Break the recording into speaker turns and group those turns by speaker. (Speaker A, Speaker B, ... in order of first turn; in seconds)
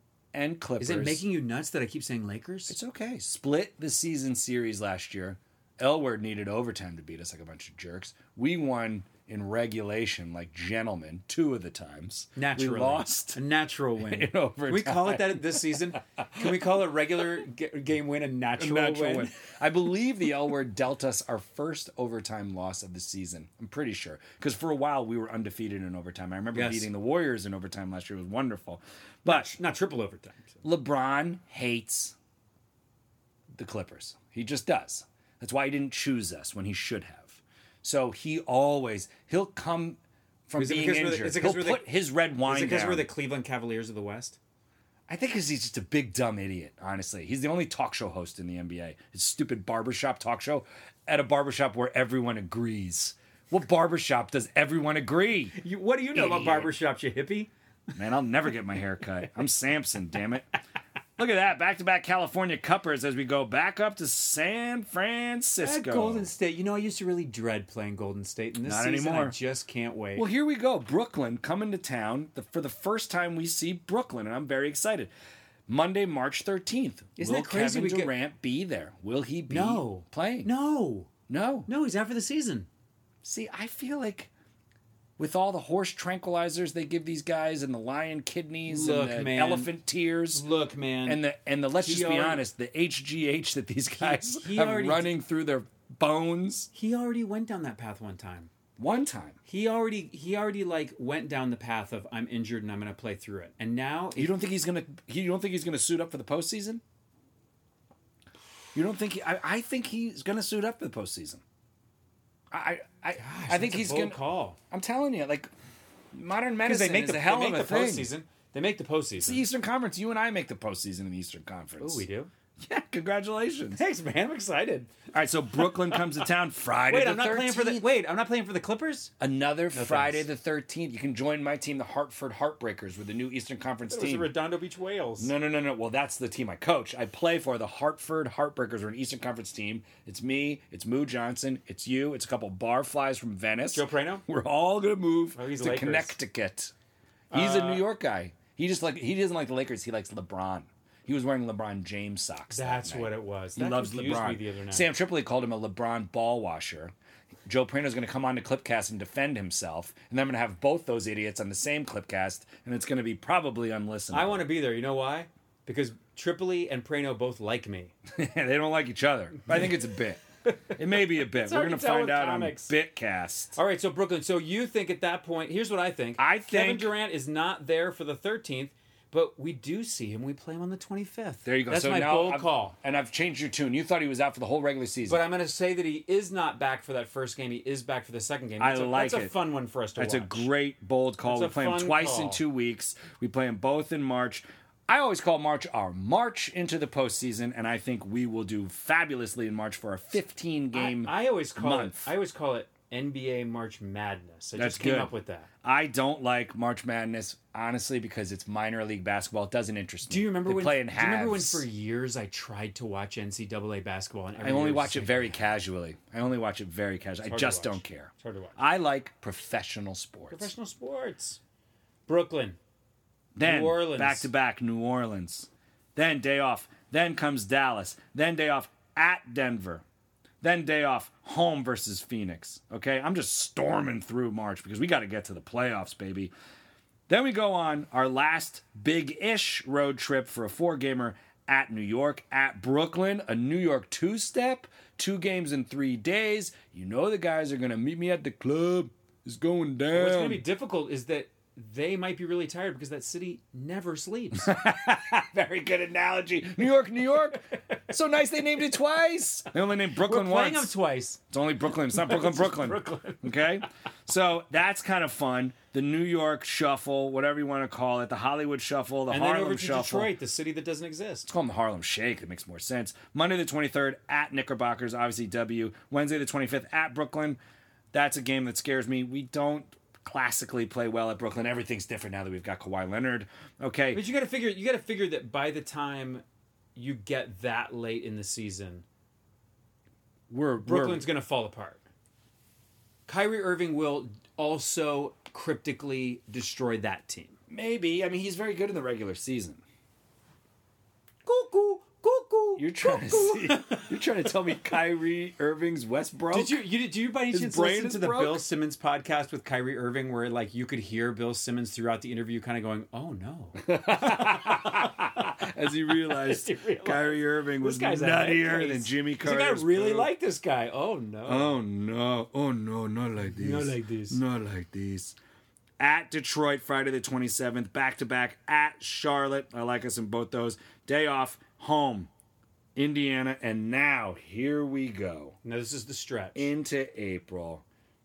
Speaker A: 0.3-1.2, 2.7-13.4, 14.0-16.6, 18.6-29.6, 30.6-32.2, 33.5-43.1, 45.1-55.6, 56.1-56.7, 58.0-60.5, 61.2-66.3, 68.7-69.4, 70.2-75.1, 75.7-80.5, 81.3-81.7, 83.2-84.3, 85.2-90.5, 91.0-96.7, 98.8-99.4, 104.2-106.8, 108.7-111.4, 112.5-114.2, 114.7-115.5, 116.1-118.1, 119.2-122.0, 122.6-123.8, 125.1-127.9, 129.2-134.3, 135.2-146.7, 147.3-156.9, 157.5-164.5, 168.1-173.6, 176.2-176.9, 181.4-185.2, 188.6-189.3, 190.0-202.1, 204.6-211.7, 214.4-220.5, 223.4-229.8, 230.4-236.3, 237.1-250.4, 254.4-260.7, 261.3-270.1, 271.3-277.4, 277.9-284.1, 290.3-291.1, 297.5-299.6, 302.6-306.6, 307.3-308.4, 313.6-320.1, 321.3-325.2, 325.8-332.1, 332.8-335.4, 336.4-337.6
Speaker B: 0.8-2.8, 12.4-19.3, 26.5-26.9, 29.2-30.6, 40.6-41.9, 42.4-44.4, 55.6-57.5, 65.6-70.3, 77.2-78.1, 79.5-81.1, 81.7-82.7, 88.7-89.7, 90.3-91.2, 91.8-92.4, 94.0-95.1, 96.7-98.5, 99.5-104.3, 113.2-114.6, 116.6-119.4, 121.8-122.3, 123.7-124.9, 125.6-126.1, 126.9-129.1, 129.7-130.3, 133.9-135.3, 143.7-144.2, 145.3-146.2, 147.3-147.9, 152.5-154.9, 164.1-167.9, 170.5-172.7, 173.6-182.8, 185.1-190.5, 191.2-192.4, 200.7-205.5, 210.1-215.5, 217.2-218.6, 220.3-221.4, 222.1-222.6, 223.4-224.3, 249.9-254.6, 259.9-261.2, 261.9-263.4, 269.1-271.3, 283.9-286.2, 286.8-288.9, 290.6-291.8, 293.1-297.4, 301.2-304.7, 306.3-314.9, 315.9-321.6, 323.2-324.2, 335.4-336.5